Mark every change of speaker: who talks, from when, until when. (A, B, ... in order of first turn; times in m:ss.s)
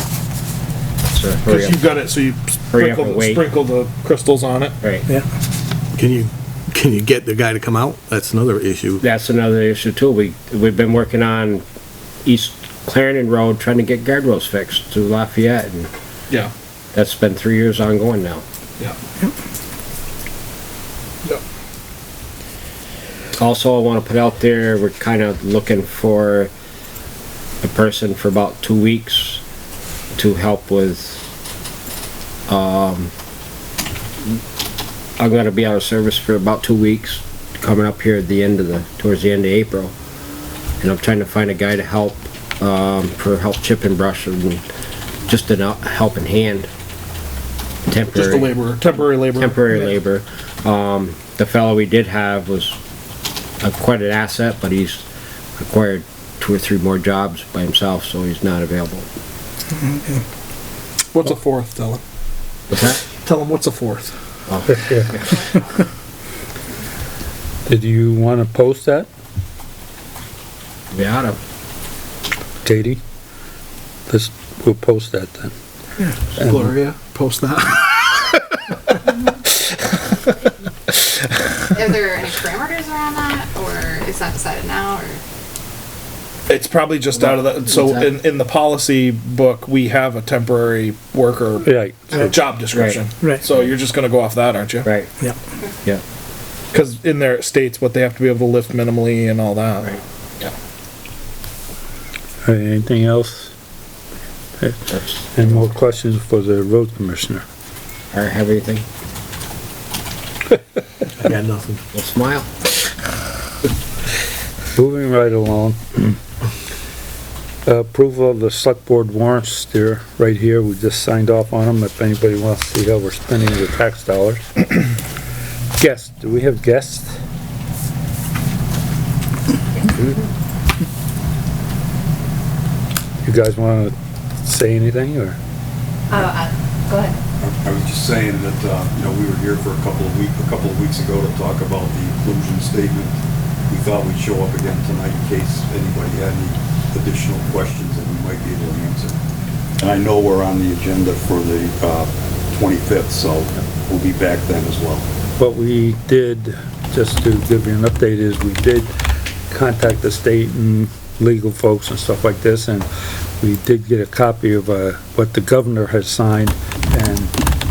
0:01.1-0:01.8 A
0:01.4-0:04.7 B
0:02.7-0:03.4 A
0:06.0-0:09.0 C
0:09.0-0:11.6 A
0:12.2-0:15.9 A
0:16.9-0:18.4 A
0:23.4-0:26.5 A
0:27.6-0:29.4 A
0:30.1-0:31.3 A
0:32.5-0:33.1 A
0:35.2-0:39.9 A
0:40.8-0:44.6 A
0:45.3-0:46.7 A
0:47.8-0:48.5 A
0:48.1-0:49.6 B
0:49.4-0:52.8 A
0:53.6-0:55.0 A
0:55.6-0:59.1 A
1:01.1-1:02.0 B
1:02.7-1:03.0 A
1:03.0-1:04.1 B
1:04.5-1:04.7 A
1:04.7-1:05.3 D
1:07.6-1:09.1 D
1:10.9-1:11.4 A
1:12.6-1:13.0 D
1:14.1-1:15.5 D
1:16.4-1:19.6 B
1:16.4-1:16.7 D
1:21.7-1:25.2 E
1:26.5-1:34.9 B
1:27.2-1:28.1 A
1:31.6-1:32.2 D
1:32.7-1:33.0 A
1:36.7-1:40.0 B
1:42.4-1:43.5 D
1:44.6-1:47.4 D
1:44.9-1:45.6 A
1:48.1-1:48.8 A
1:51.2-1:51.8 C
1:51.9-1:52.5 A
1:54.8-1:56.1 D
1:57.6-2:04.5 D
2:05.8-2:07.1 D
2:13.2-2:15.4 D
2:16.1-2:17.2 E
2:17.4-2:23.2 F
2:23.7-2:29.1 F
2:29.8-2:35.0 F
2:35.4-2:38.9 D
2:39.5-2:42.9 D
2:43.4-2:47.3 D